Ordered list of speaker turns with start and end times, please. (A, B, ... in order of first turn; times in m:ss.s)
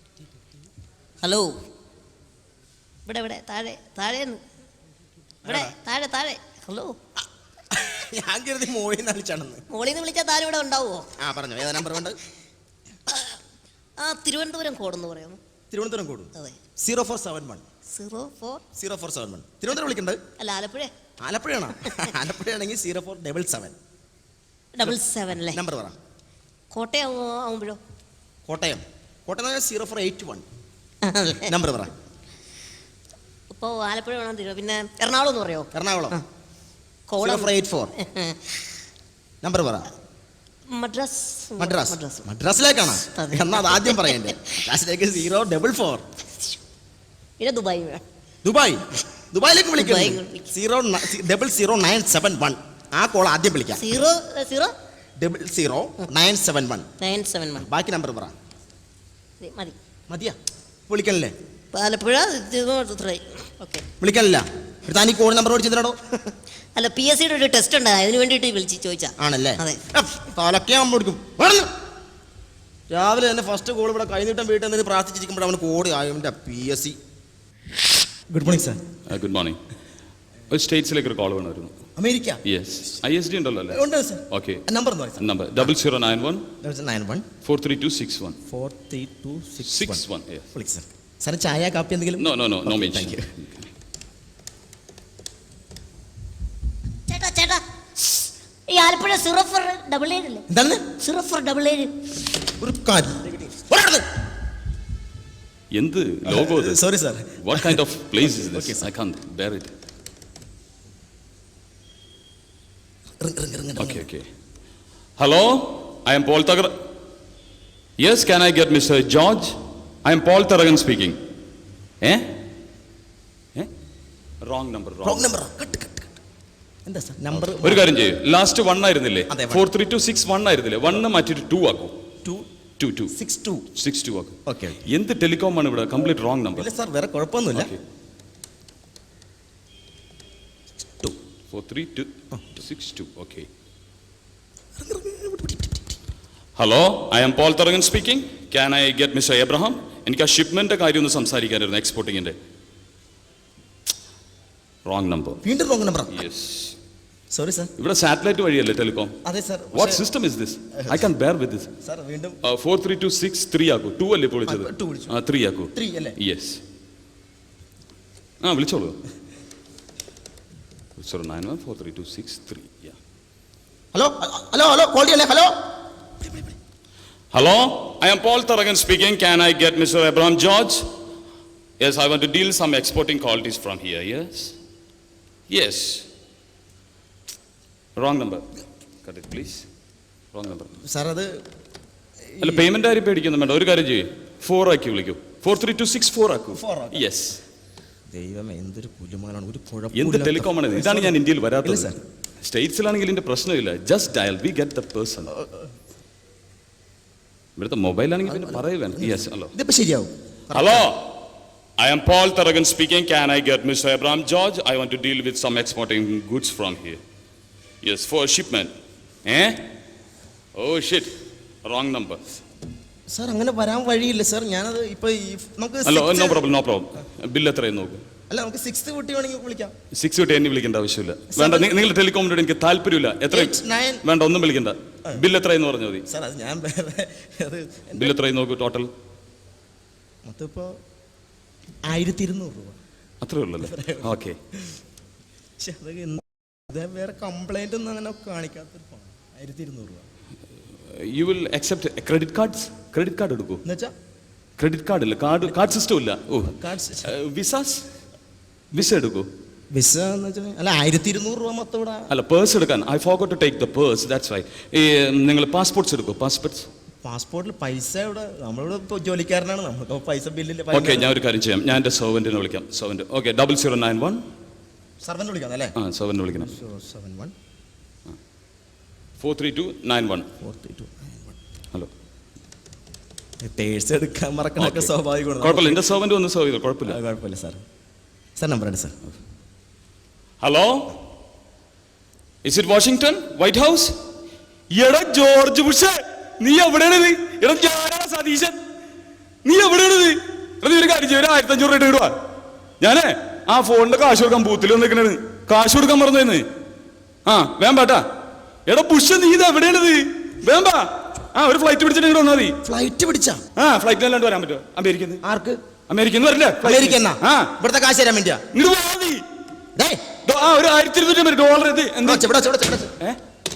0:01.2-0:01.5 A
0:03.0-0:04.4 A
0:05.4-0:06.9 A
0:05.4-0:05.7 B
0:07.7-0:09.6 B
0:09.7-0:11.0 A
0:11.2-0:12.2 B
0:13.1-0:13.4 A
0:14.0-0:15.4 A
0:15.7-0:17.6 B
0:17.9-0:18.6 A
0:18.7-0:20.2 B
0:20.4-0:20.9 A
0:21.2-0:23.8 B
0:21.8-0:22.1 A
0:24.7-0:25.6 A
0:24.8-0:26.0 B
0:26.7-0:27.8 A
0:28.4-0:30.4 B
0:31.0-0:31.6 A
0:31.4-0:31.9 B
0:33.5-0:36.2 A
0:35.7-0:36.2 B
0:37.1-0:38.6 A
0:37.2-0:37.9 B
0:39.4-0:39.9 B
0:40.7-0:42.2 A
0:41.6-0:46.0 B
0:43.1-0:44.5 A
0:47.4-0:48.0 A
0:48.4-0:53.8 B
0:49.8-0:50.5 A
0:53.8-0:54.7 A
0:55.2-0:56.9 B
0:57.0-0:57.7 A
0:57.6-0:58.3 B
0:59.4-0:59.8 A
1:00.1-1:00.4 B
1:00.9-1:01.3 B
1:01.7-1:03.8 A
1:04.0-1:06.0 B
1:06.3-1:09.8 A
1:09.2-1:11.7 B
1:12.9-1:17.0 B
1:18.3-1:18.8 B
1:19.1-1:19.6 C
1:20.5-1:21.7 C
1:22.0-1:22.4 B
1:22.4-1:24.6 C
1:23.7-1:25.7 B
1:25.2-1:26.4 C
1:26.6-1:27.2 B
1:27.4-1:28.4 C
1:28.5-1:33.3 B
1:29.6-1:30.4 C
1:32.2-1:33.7 C
1:37.1-1:40.4 A
1:40.5-1:40.8 B
1:41.0-1:41.9 A
1:42.6-1:44.0 B
1:45.7-1:46.8 C
1:46.3-1:48.9 B
1:47.4-1:49.7 C
1:53.2-1:54.0 B
1:53.8-1:54.2 C
1:55.2-1:56.7 C
1:58.0-2:01.2 C
2:04.4-2:05.3 C
2:05.0-2:06.1 B
2:06.8-2:07.9 B
2:07.3-2:11.9 C
2:09.3-2:09.6 B
2:12.8-2:13.1 C
2:13.1-2:13.6 B
2:13.8-2:14.4 C
2:14.4-2:14.8 B
2:14.9-2:16.7 C
2:16.5-2:17.7 B
2:17.5-2:17.8 C
2:21.5-2:23.5 C
2:24.8-2:26.0 B
2:26.6-2:32.4 C
2:34.8-2:35.4 C
2:35.4-2:36.2 B
2:36.1-2:36.8 C
2:37.3-2:37.7 B
2:37.8-2:39.1 C
2:39.2-2:40.0 B
2:39.7-2:41.7 C
2:41.8-2:42.4 B
2:42.4-2:46.6 C
2:44.4-2:45.1 B
2:45.7-2:46.2 B
2:48.4-2:49.0 C
2:51.0-2:53.0 C
2:53.9-2:55.5 B
2:57.3-3:00.8 C
3:01.8-3:04.5 C
3:05.5-3:06.0 C
3:08.0-3:08.5 C
3:09.0-3:09.6 C
3:10.3-3:10.7 C
3:10.8-3:11.4 B
3:12.3-3:12.7 B
3:12.4-3:17.4 C
3:16.5-3:17.1 B
3:18.1-3:22.0 B
3:19.9-3:25.3 C
3:25.3-3:25.6 B
3:27.6-3:29.5 C
3:28.2-3:30.9 B
3:30.5-3:31.0 C
3:31.8-3:37.0 C
3:37.8-3:38.7 C
3:39.2-3:39.6 C
3:40.6-3:42.2 C
3:43.1-3:46.5 B
3:45.8-3:48.0 C
3:48.3-3:49.7 B
3:49.9-3:56.0 C
3:51.3-3:51.8 B
3:53.3-3:54.0 B
3:56.1-3:58.1 B
3:57.9-3:58.9 C
4:00.2-4:00.7 B
4:01.9-4:02.8 B
4:03.2-4:04.4 C
4:03.6-4:04.8 B
4:05.6-4:10.0 B
4:10.9-4:13.6 C
4:13.6-4:13.9 B
4:14.6-4:16.5 C
4:16.5-4:17.1 B
4:17.0-4:17.8 C
4:18.7-4:19.3 C
4:19.7-4:22.1 B
4:22.1-4:26.7 C
4:27.0-4:31.1 B
4:30.7-4:34.2 C
4:35.0-4:35.8 B
4:35.8-4:36.5 C
4:36.3-4:37.3 B
4:39.2-4:40.2 C
4:40.4-4:41.3 B
4:43.4-4:45.8 B
4:44.6-4:47.0 C
4:46.8-4:47.6 B
4:48.4-4:48.9 B
4:50.4-4:50.9 C
4:52.4-4:53.9 C
4:54.7-4:58.6 C
4:59.4-5:02.1 C
5:02.8-5:06.4 C
5:07.2-5:08.0 C
5:08.7-5:12.6 C
5:12.6-5:13.4 B
5:13.6-5:15.2 C
5:15.2-5:15.6 B
5:15.9-5:17.5 C
5:16.6-5:18.4 B
5:18.5-5:19.2 C
5:19.7-5:20.0 B
5:20.2-5:22.3 C
5:22.0-5:22.9 B